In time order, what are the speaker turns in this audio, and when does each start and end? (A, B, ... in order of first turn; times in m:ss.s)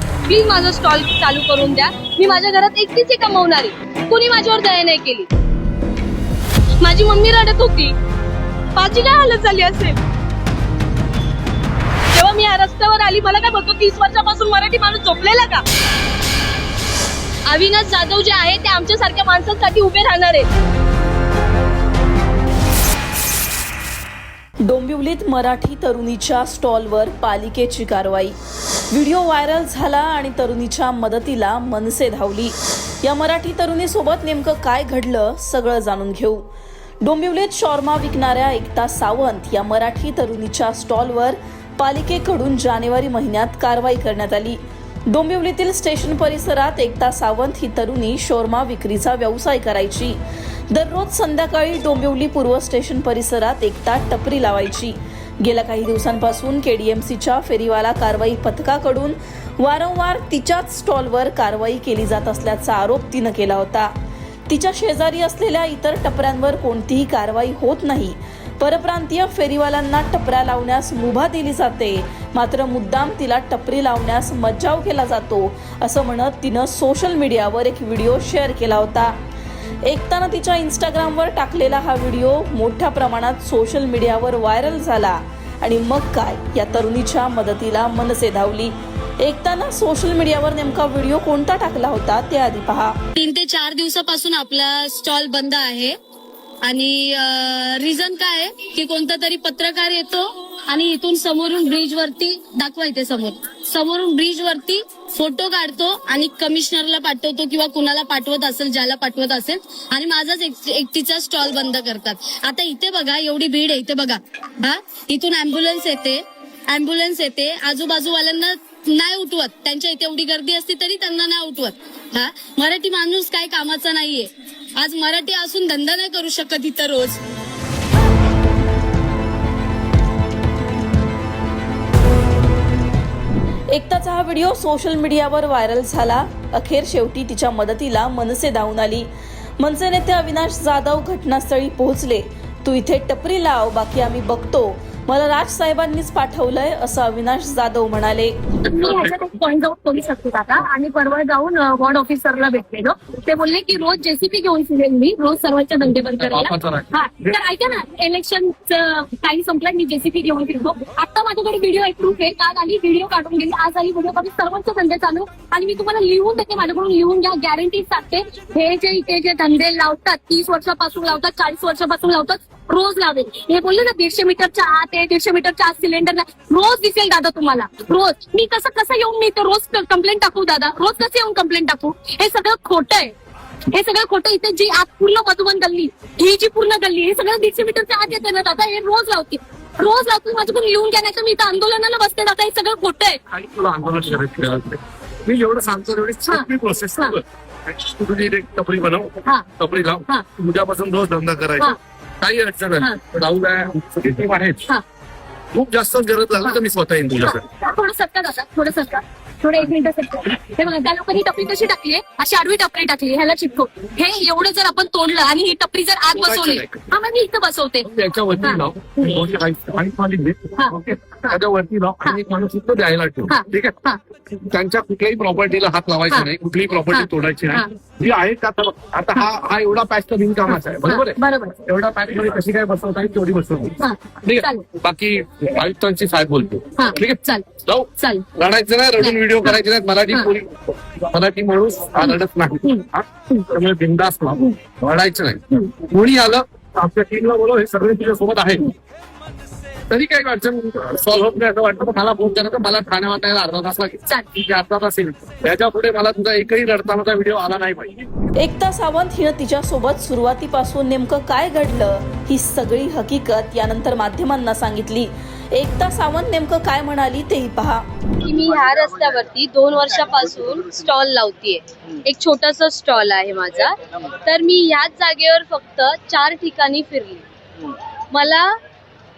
0:00.3-0:05.3 A
0:06.8-0:07.9 A
0:08.7-0:10.0 A
0:12.1-0:15.6 A
0:17.5-0:20.5 A
0:24.6-0:28.3 B
0:28.9-0:36.5 B
0:37.0-0:44.6 B
0:45.1-0:50.2 B
0:50.7-1:03.9 B
1:04.5-1:19.1 B
1:19.8-1:33.0 B
1:33.2-1:35.9 A
1:36.6-2:07.2 A
2:13.7-2:19.1 B
2:19.6-2:28.3 B
2:28.6-3:03.1 C
2:36.2-2:37.3 D
3:03.7-3:13.2 C
3:13.3-3:24.6 D
3:16.3-3:17.2 C
3:25.5-3:27.4 D
3:27.2-3:37.9 C
3:36.1-3:36.8 D
3:37.8-3:43.8 D
3:38.4-3:39.2 C
3:43.3-3:44.0 C
3:44.3-4:08.7 D
3:46.9-3:47.7 C
3:50.5-3:51.6 C
3:53.8-3:54.6 C
3:56.8-3:57.4 C
3:58.0-3:58.2 C
3:59.0-4:00.3 C
4:02.0-4:03.4 C
4:09.9-4:18.1 D
4:18.4-4:27.8 B
4:28.2-4:37.2 A
4:38.1-4:38.6 A